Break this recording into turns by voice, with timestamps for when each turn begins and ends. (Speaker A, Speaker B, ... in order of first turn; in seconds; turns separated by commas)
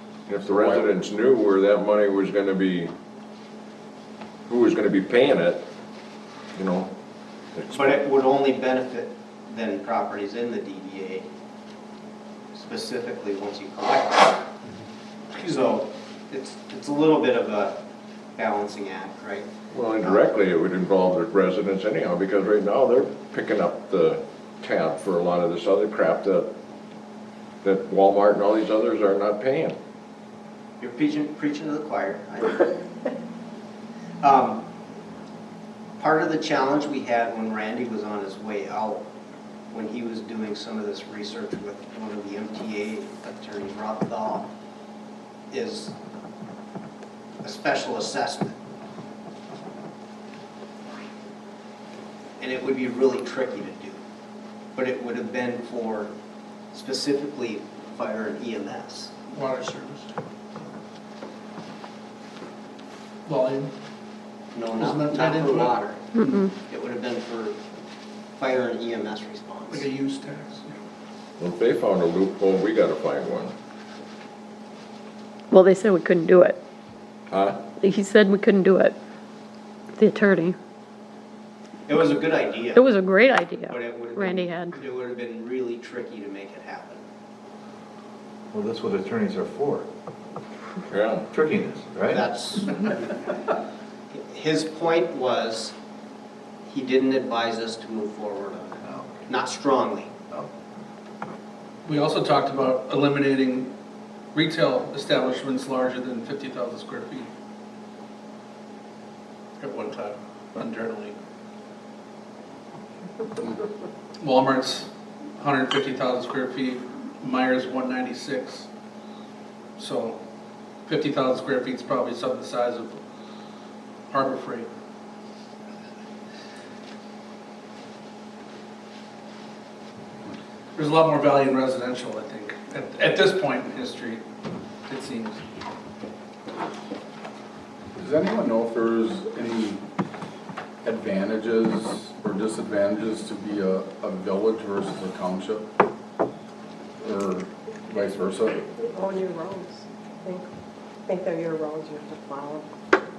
Speaker A: 0.3-2.9, Speaker B: 0.4-0.9, Speaker A: 4.5-5.6, Speaker A: 6.5-6.9, Speaker A: 7.5-8.0, Speaker C: 7.7-11.3, Speaker C: 12.5-14.4, Speaker C: 15.3-17.8, Speaker C: 18.4-19.5, Speaker A: 19.7-26.5, Speaker A: 27.6-29.8, Speaker C: 30.8-32.7, Speaker C: 34.2-34.7, Speaker C: 36.0-39.0, Speaker C: 39.7-44.5, Speaker C: 45.5-45.9, Speaker C: 47.4-48.6, Speaker C: 52.4-54.0, Speaker C: 54.7-56.1, Speaker C: 56.7-59.1, Speaker D: 59.3-60.1, Speaker D: 63.2-63.7, Speaker C: 64.5-66.0, Speaker D: 64.7-66.5, Speaker E: 66.1-66.5, Speaker C: 66.7-67.6, Speaker C: 68.4-69.8, Speaker D: 69.7-70.8, Speaker A: 71.4-73.5, Speaker E: 75.5-76.6, Speaker A: 77.3-77.6, Speaker E: 77.8-79.0, Speaker E: 79.9-80.6, Speaker C: 81.9-82.9, Speaker E: 82.7-84.7, Speaker C: 83.7-87.0, Speaker F: 88.5-89.8, Speaker A: 90.9-91.3, Speaker F: 91.3-92.2, Speaker C: 91.4-93.2, Speaker C: 94.1-95.7, Speaker C: 96.6-98.7, Speaker C: 99.3-100.1, Speaker D: 101.8-103.7, Speaker D: 104.3-107.3, Speaker D: 109.6-111.1, Speaker D: 114.2-118.7, Speaker D: 119.8-120.2, Speaker D: 120.8-123.0, Speaker D: 124.1-124.7, Speaker D: 130.7-134.2, Speaker D: 134.9-135.4, Speaker B: 137.9-139.8, Speaker B: 140.8-145.7, Speaker B: 147.0-148.7, Speaker G: 148.8-150.4, Speaker G: 151.1-152.7